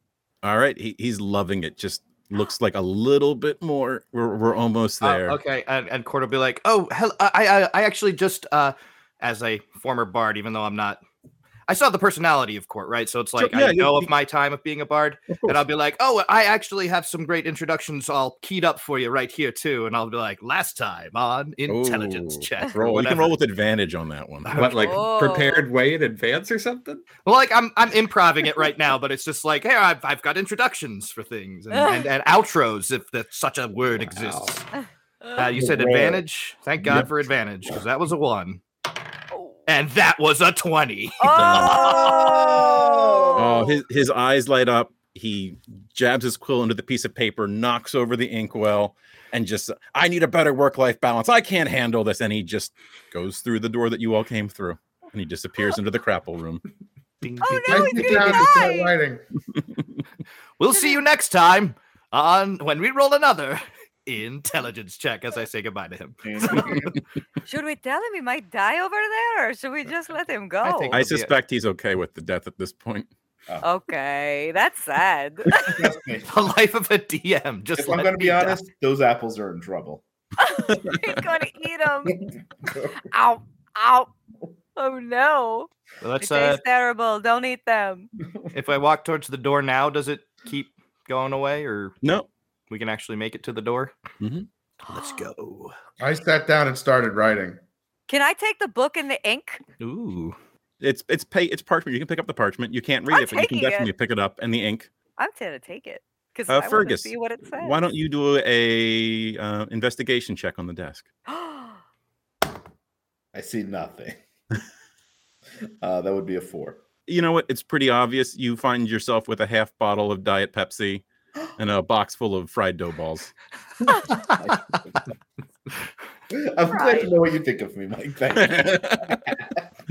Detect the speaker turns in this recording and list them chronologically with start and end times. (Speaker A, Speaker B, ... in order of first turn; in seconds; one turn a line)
Speaker A: 0.4-5.4
Speaker B: 5.0-11.0
Speaker B: 11.7-23.4
Speaker A: 13.4-14.1
Speaker A: 21.7-24.7
Speaker B: 24.4-25.0
Speaker C: 24.6-27.1
Speaker D: 24.7-25.7
Speaker B: 27.2-34.7
Speaker D: 31.7-32.0
Speaker C: 34.0-34.6
Speaker D: 35.2-35.5
Speaker B: 35.4-38.6
Speaker E: 35.5-36.2
Speaker E: 36.8-37.1
Speaker D: 39.3-39.6
Speaker B: 39.6-42.6
Speaker D: 41.2-43.8
Speaker A: 41.3-42.2
Speaker E: 42.4-43.5
Speaker A: 43.3-56.6
Speaker B: 57.2-58.6
Speaker D: 57.4-58.9
Speaker F: 57.7-59.2
Speaker B: 60.6-66.5
Speaker D: 60.7-61.0
Speaker E: 66.2-67.0
Speaker D: 66.4-66.9
Speaker D: 67.4-71.0
Speaker B: 70.6-71.3
Speaker A: 70.9-73.1
Speaker D: 73.6-75.9
Speaker E: 75.5-76.3
Speaker B: 76.3-78.6
Speaker E: 77.7-80.0
Speaker D: 80.4-82.2
Speaker D: 82.9-84.1
Speaker D: 84.8-88.1
Speaker B: 86.0-86.6
Speaker B: 88.5-91.9
Speaker A: 92.0-92.3
Speaker B: 92.7-93.9
Speaker A: 94.2-94.5
Speaker B: 94.9-95.7
Speaker D: 94.9-95.3
Speaker F: 96.0-97.6
Speaker D: 98.1-99.6
Speaker B: 99.8-100.4
Speaker A: 100.8-104.9
Speaker D: 103.1-103.9
Speaker D: 105.2-107.8
Speaker A: 106.5-111.1
Speaker D: 111.3-111.8
Speaker E: 113.3-114.1
Speaker E: 115.8-116.8
Speaker A: 117.1-121.0
Speaker A: 121.6-123.3
Speaker E: 123.9-125.0
Speaker E: 126.3-129.6
Speaker D: 126.7-127.1
Speaker A: 128.3-129.4